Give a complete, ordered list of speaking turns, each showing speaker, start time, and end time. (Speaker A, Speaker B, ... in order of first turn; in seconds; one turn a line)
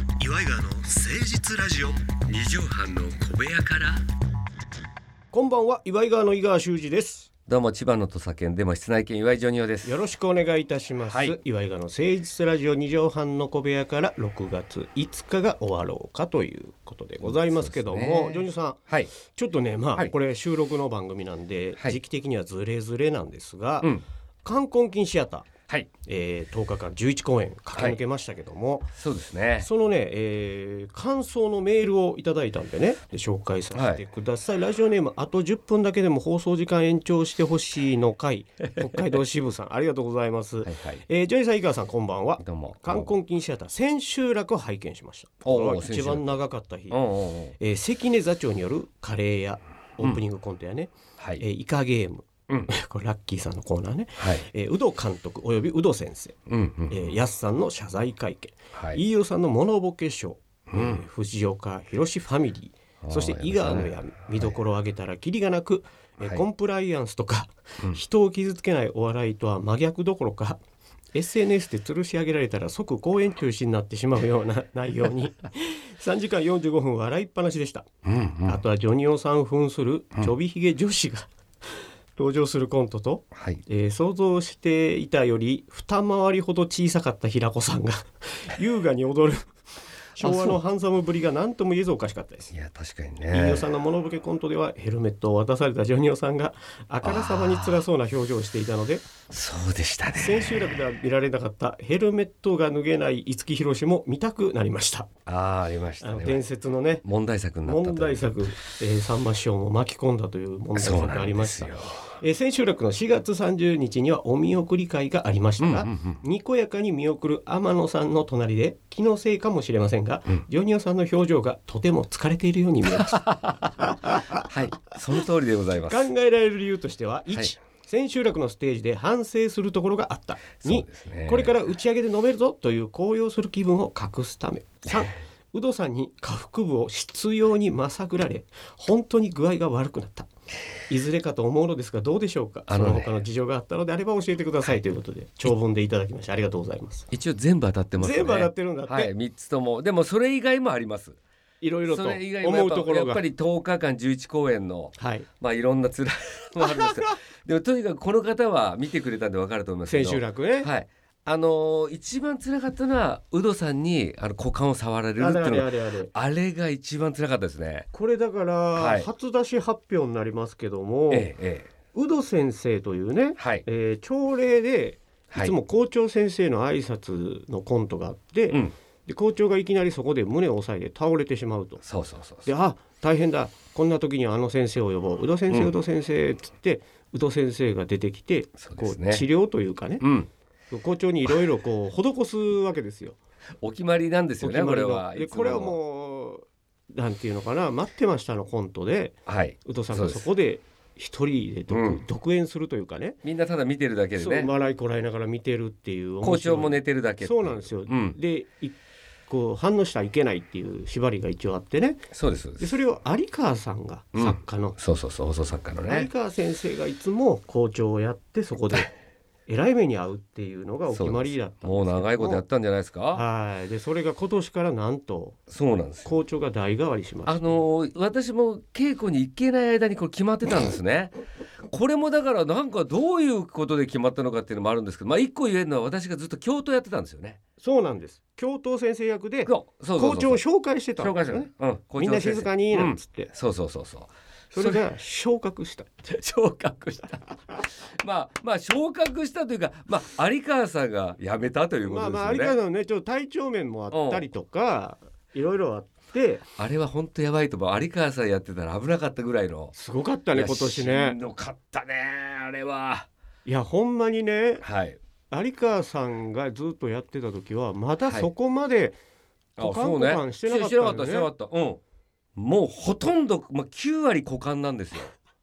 Speaker A: 0.2-4.0
Speaker B: 5.3-7.3
Speaker A: 7.5-10.0
Speaker B: 9.8-25.5
Speaker A: 11.1-11.4
Speaker A: 17.2-19.1
Speaker B: 26.1-28.9
Speaker A: 28.9-29.7
Speaker B: 29.6-47.0
Speaker A: 33.7-34.0
Speaker A: 40.6-41.0
Speaker A: 42.4-43.1
Speaker A: 45.4-46.4
Speaker A: 46.9-47.5
Speaker B: 47.6-56.4
Speaker A: 51.2-51.4
Speaker A: 54.2-54.5
Speaker A: 56.5-57.1
Speaker B: 56.9-70.6
Speaker A: 58.7-59.0
Speaker A: 60.7-61.0
Speaker A: 63.0-63.9
Speaker B: 71.1-77.9
Speaker A: 78.0-78.6
Speaker B: 78.4-81.3
Speaker B: 82.2-89.5
Speaker A: 83.3-83.6
Speaker B: 90.1-92.5
Speaker A: 90.2-90.6
Speaker A: 92.5-93.7
Speaker B: 93.3-99.1
Speaker A: 97.0-97.8
Speaker A: 99.3-100.8
Speaker B: 100.1-105.1
Speaker A: 105.2-106.4
Speaker B: 106.0-107.0
Speaker A: 107.0-108.4
Speaker B: 107.6-123.2
Speaker A: 110.8-112.0
Speaker A: 115.6-116.2
Speaker A: 122.9-126.1
Speaker B: 125.9-140.3
Speaker A: 130.6-131.6
Speaker B: 140.9-147.1
Speaker A: 142.7-143.1
Speaker A: 147.1-151.2
Speaker B: 148.0-149.1
Speaker B: 151.6-153.2
Speaker A: 151.9-167.9
Speaker B: 155.0-155.3
Speaker B: 156.8-157.1
Speaker B: 159.9-160.7
Speaker B: 165.2-166.1
Speaker B: 167.9-171.3
Speaker A: 168.8-169.1
Speaker A: 171.1-171.7
Speaker B: 171.9-181.8
Speaker A: 173.4-173.6
Speaker A: 181.8-182.5
Speaker B: 182.4-190.0
Speaker A: 188.6-189.2
Speaker A: 190.0-190.3
Speaker B: 190.7-193.2
Speaker A: 193.6-195.8
Speaker B: 194.4-203.2
Speaker A: 199.2-200.2
Speaker A: 201.7-202.0
Speaker A: 203.2-204.5
Speaker B: 204.2-212.0
Speaker A: 206.2-208.2
Speaker A: 212.1-212.8
Speaker B: 212.6-214.8
Speaker A: 214.1-216.1
Speaker B: 215.8-218.9
Speaker B: 219.5-222.4
Speaker A: 220.9-223.2
Speaker B: 223.1-225.4
Speaker A: 225.5-226.2
Speaker B: 226.0-227.6
Speaker A: 227.2-231.2
Speaker A: 231.7-237.4
Speaker B: 237.6-243.3
Speaker A: 239.4-240.4
Speaker A: 241.0-244.8
Speaker B: 244.5-246.0
Speaker A: 246.0-252.6
Speaker B: 251.9-256.4
Speaker A: 253.9-254.2
Speaker A: 256.6-259.7
Speaker B: 259.7-261.2
Speaker A: 260.3-263.1
Speaker B: 263.4-264.6
Speaker A: 264.6-265.0
Speaker B: 265.3-269.0
Speaker B: 269.6-271.3
Speaker A: 269.6-271.8
Speaker A: 272.4-275.1